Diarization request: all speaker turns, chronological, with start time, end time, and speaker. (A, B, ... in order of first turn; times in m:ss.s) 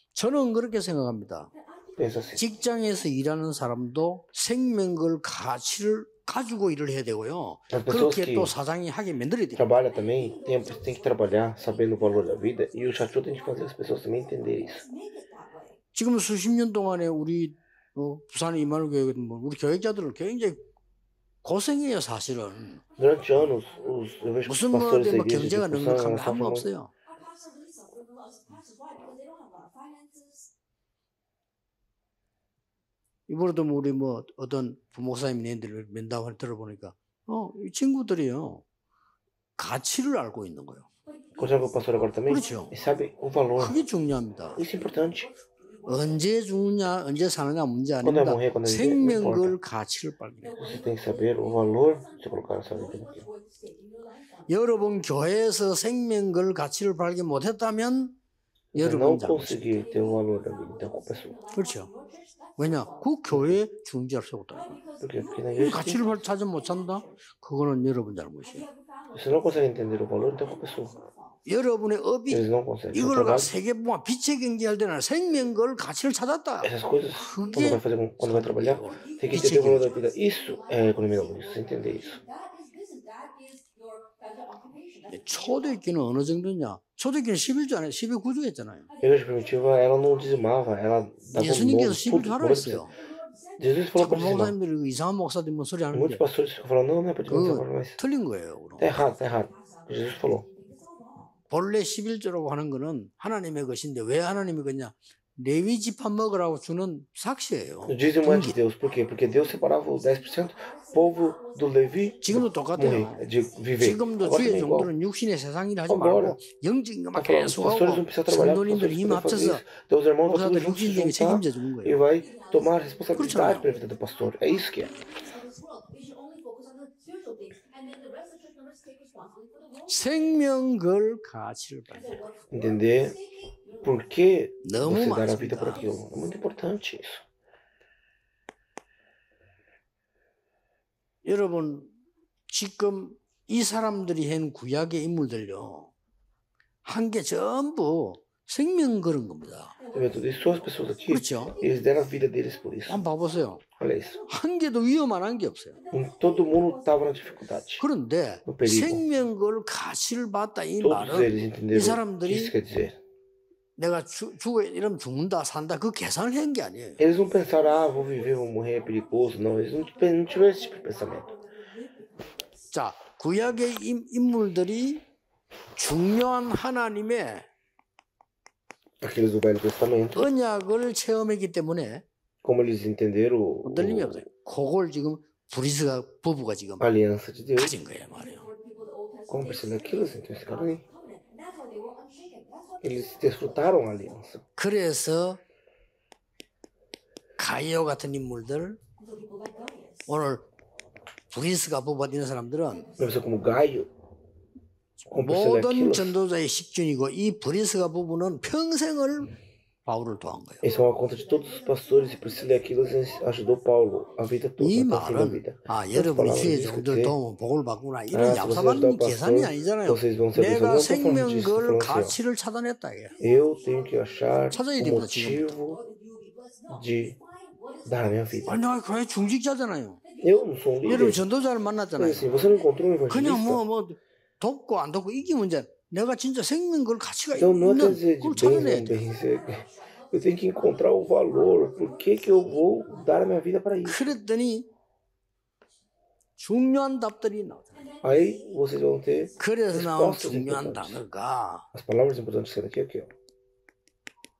0:00.2-0:01.5 A
0:01.7-0:02.4 B
0:02.0-0:02.4 C
0:02.4-0:09.7 A
0:07.7-0:08.5 C
0:09.6-0:14.8 C
0:10.0-0:15.8 B
0:15.9-0:20.6 A
0:21.4-0:22.8 A
0:23.0-0:24.4 B
0:23.0-0:26.7 C
0:24.4-0:26.9 A
0:27.0-0:30.5 B
0:33.3-0:38.6 A
0:39.6-0:40.9 A
0:41.1-0:43.0 B
0:41.4-0:43.8 C
0:42.3-0:42.7 A
0:43.6-0:44.6 A
0:44.6-0:45.3 C
0:45.8-0:46.1 B
0:45.9-0:50.6 A
0:48.0-0:49.6 C
0:50.6-0:53.3 C
0:50.9-0:54.5 B
0:54.5-0:58.2 A
0:58.7-1:01.4 C
0:58.8-0:59.7 A
1:00.0-1:03.0 B
1:01.5-1:01.9 A
1:02.6-1:04.8 A
1:03.3-1:03.6 C
1:04.8-1:07.1 B
1:05.0-1:06.2 C
1:05.6-1:08.7 A
1:08.6-1:11.1 B
1:09.1-1:11.0 C
1:11.5-1:19.9 A
1:12.3-1:13.5 C
1:16.6-1:22.2 C
1:19.0-1:25.7 B
1:25.1-1:28.9 A
1:29.0-1:32.9 C
1:29.1-1:30.1 B
1:31.4-1:33.0 A
1:33.1-1:33.6 B
1:33.6-1:34.6 C
1:34.0-1:36.2 A
1:35.9-1:38.0 C
1:37.3-1:39.0 A
1:38.8-1:40.5 C
1:39.0-1:41.4 B
1:41.5-1:48.6 A
1:47.9-1:54.9 C
1:49.0-1:53.3 B
1:52.2-1:53.2 A
1:53.8-1:59.7 A
1:53.8-1:54.8 B
1:55.9-1:56.4 C
1:57.2-2:04.9 C
2:00.3-2:02.0 A
2:02.2-2:10.2 B
2:03.2-2:03.7 A
2:09.9-2:12.3 A
2:12.0-2:14.1 B
2:12.5-2:13.2 C
2:13.8-2:17.2 C
2:14.6-2:15.9 A
2:21.2-2:22.0 A
2:22.5-2:25.9 A
2:26.8-2:29.8 A
2:29.9-2:33.0 C
2:30.2-2:31.8 B
2:31.1-2:31.6 A
2:32.9-2:33.6 A
2:33.8-2:34.2 C
2:34.3-2:35.8 A
2:35.9-2:37.8 C
2:37.8-2:42.6 A
2:38.5-2:39.0 C
2:40.8-2:43.0 C
2:43.8-2:47.0 A
2:47.0-2:51.3 C
2:47.4-2:52.5 B
2:52.7-2:55.0 A
2:55.8-2:57.5 A
2:59.0-3:00.3 C
3:00.1-3:02.0 A
3:02.4-3:04.2 C
3:03.6-3:06.9 A
3:06.8-3:07.8 C
3:07.6-3:08.5 A
3:08.2-3:13.9 B
3:09.3-3:10.8 C
3:12.8-3:14.4 C
3:14.6-3:15.4 A
3:17.4-3:18.8 A
3:19.0-3:20.1 B
3:20.1-3:20.5 A
3:21.3-3:22.9 A
3:23.0-3:23.9 C
3:23.0-3:23.2 B
3:25.0-3:29.3 A
3:25.1-3:26.2 C
3:29.9-3:30.6 A
3:30.6-3:37.2 C
3:30.6-3:34.0 B
3:34.6-3:43.2 A
3:38.1-3:42.2 C
3:43.2-3:44.3 B
3:43.2-3:45.8 C
3:44.5-3:45.6 A
3:45.7-3:48.4 B
3:46.7-3:47.2 C
3:47.8-3:48.6 C
3:48.5-3:50.0 A
3:50.2-3:51.2 C
3:50.8-3:52.3 A
3:52.0-3:53.6 C
3:53.1-3:59.1 A
3:57.4-4:04.2 C
3:58.9-4:03.2 B
4:03.8-4:04.7 A
4:06.4-4:07.8 A
4:08.0-4:08.4 B
4:08.0-4:11.0 C
4:09.4-4:11.7 A
4:11.7-4:13.1 C